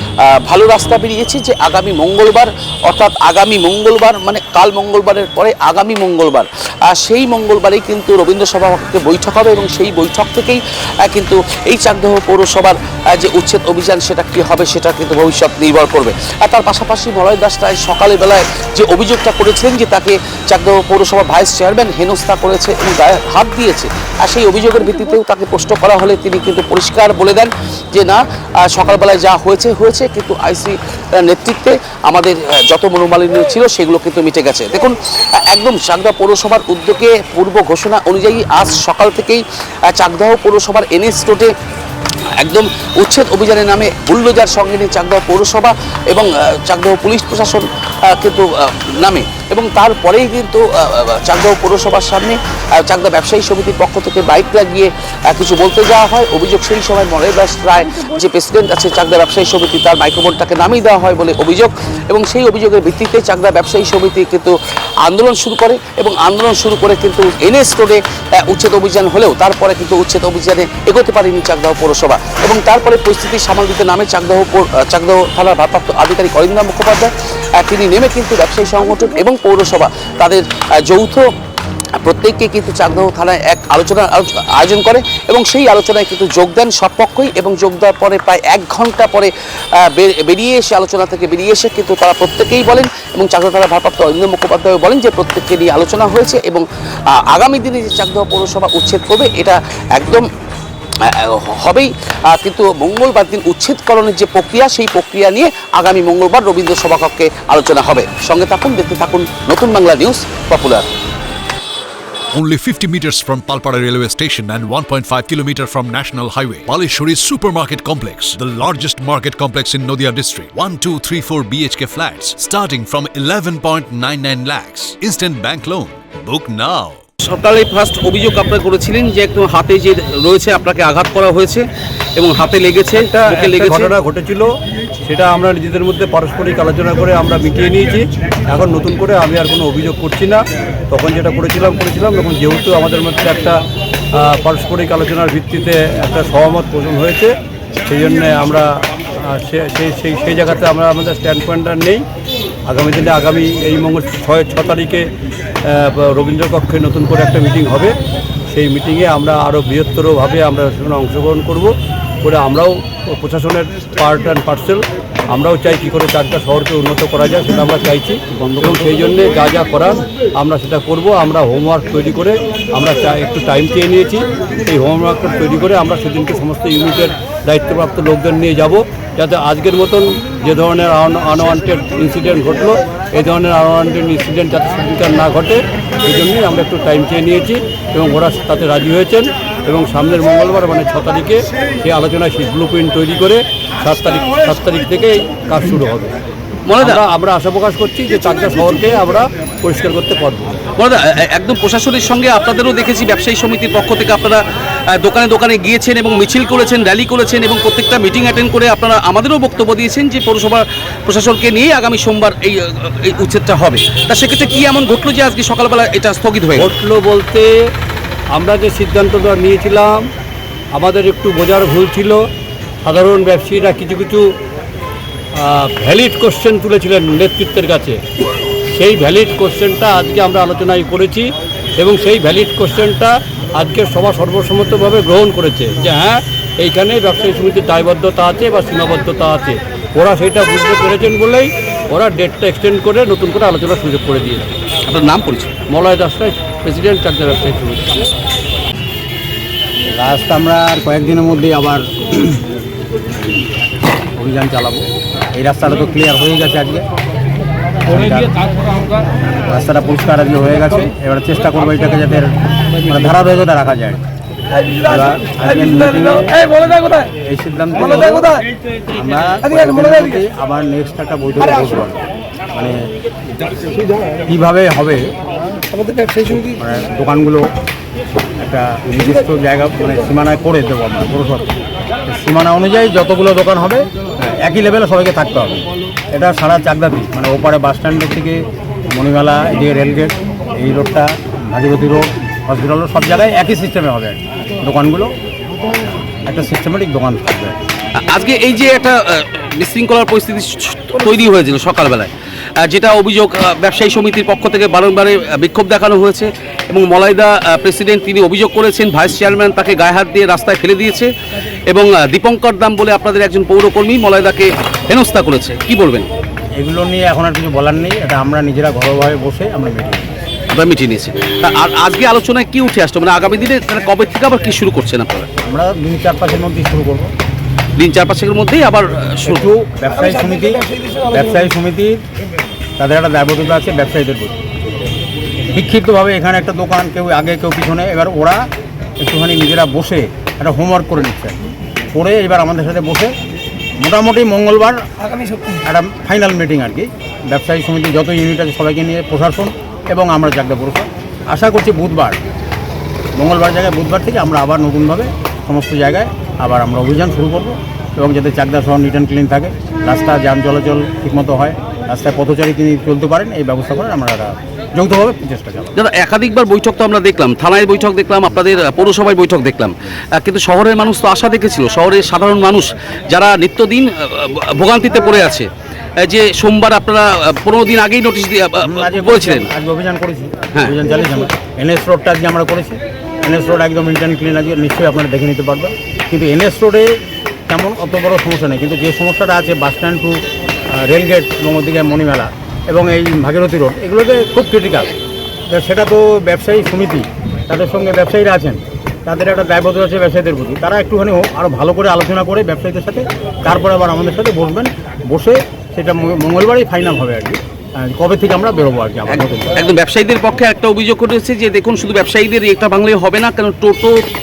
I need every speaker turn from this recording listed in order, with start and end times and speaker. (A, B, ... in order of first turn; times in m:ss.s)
0:00.4-0:35.0 A
0:35.5-0:39.4 A
0:39.9-0:41.5 A
0:42.4-0:47.6 A
0:48.2-0:48.5 A
0:49.0-1:21.2 A
1:22.0-1:29.3 A
1:30.0-1:36.6 A
1:37.3-1:40.2 A
1:41.2-1:50.8 A
1:52.3-2:07.0 B
2:07.2-2:11.6 A
2:12.2-2:13.9 A
2:12.9-2:14.5 C
2:15.0-2:23.6 C
2:24.1-2:27.3 C
2:27.9-2:28.7 C
2:29.2-2:32.0 C
2:32.7-2:35.1 C
2:35.6-2:38.0 C
2:38.5-3:16.1 C
3:16.7-3:17.0 A
3:16.8-3:20.6 C
3:20.8-3:24.4 A
3:25.0-3:36.7 A
3:36.6-3:37.5 C
3:38.3-3:40.0 C
3:40.7-3:42.2 C
3:42.9-3:44.2 C
3:45.4-3:48.0 C
3:48.7-4:04.6 C
4:04.9-4:05.5 A
4:05.7-4:08.1 C
4:09.9-4:12.4 D
4:14.2-4:16.8 D
4:17.8-4:18.4 D
4:19.5-4:22.3 D
4:22.8-4:24.0 D
4:24.8-4:28.4 D
4:28.9-4:32.0 D
4:34.3-4:35.1 D
4:36.3-4:37.5 D
4:38.4-4:41.5 D
4:42.1-4:48.4 D
4:48.9-4:55.1 D
4:56.3-4:57.6 D
4:58.0-5:02.1 A
5:02.6-5:11.1 A
5:11.7-5:16.1 A
5:16.6-5:20.1 D
5:20.5-5:25.3 A
5:25.4-5:27.1 D
5:27.8-5:29.5 A
5:29.3-5:32.0 D
5:32.8-5:34.4 D
5:35.5-5:38.5 D
5:39.0-5:41.4 D
5:41.9-5:43.1 D
5:43.8-5:44.8 D
5:45.6-5:52.2 D
5:53.2-6:05.7 D
6:05.8-6:15.5 A
6:16.0-6:19.5 A
6:18.6-6:26.9 D
6:27.5-6:30.2 D
6:30.8-6:34.9 D
6:35.5-6:49.5 D
6:49.1-6:53.9 A